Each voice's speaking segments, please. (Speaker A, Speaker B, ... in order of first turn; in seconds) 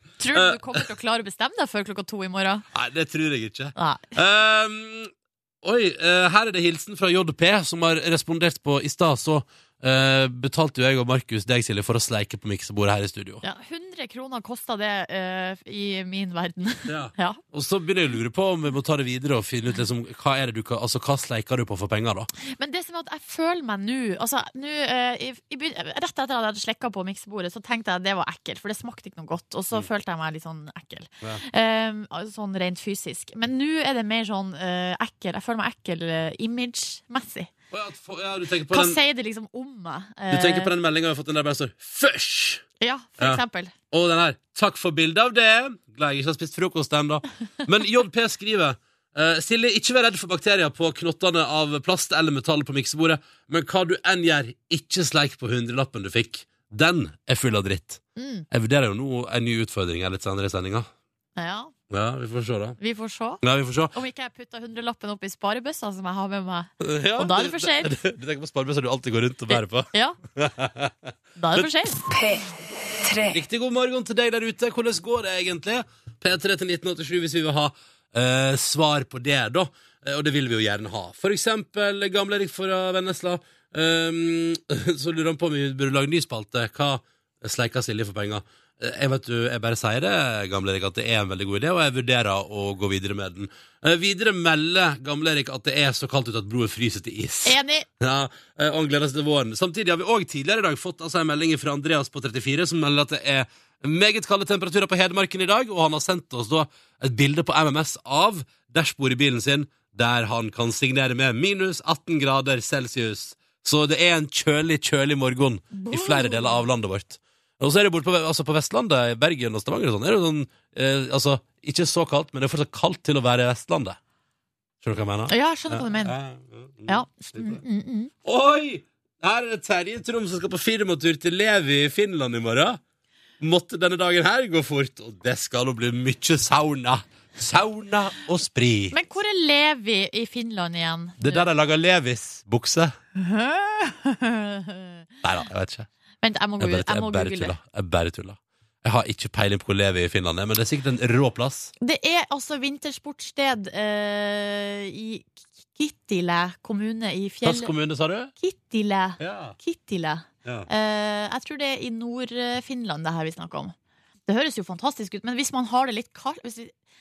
Speaker A: 0.2-2.6, 3.8-4.1, 13.4-17.4, 22.5-37.5, 38.7-40.7, 42.8-43.7, 58.2-58.5, 61.4-61.7, 62.8-68.0, 69.5-70.2, 71.4-72.2, 97.5-97.9, 115.7-116.6, 125.3-126.2, 126.9-128.1, 138.9-141.5, 143.2-145.0, 146.2-147.5, 151.8-157.7, 158.4-163.8, 164.3-166.7
Speaker B: 0.3-0.8, 2.7-5.1, 5.6-13.4, 16.9-22.3, 37.7-39.0, 40.3-42.6, 43.2-60.9, 61.9-62.8, 63.4-64.0, 66.8-70.9, 71.5-71.9, 73.3-124.0, 124.8-127.6, 128.2-132.8, 133.4-138.9, 141.2-142.9, 145.2-145.9, 146.6-151.7, 157.4-158.3, 159.2-159.6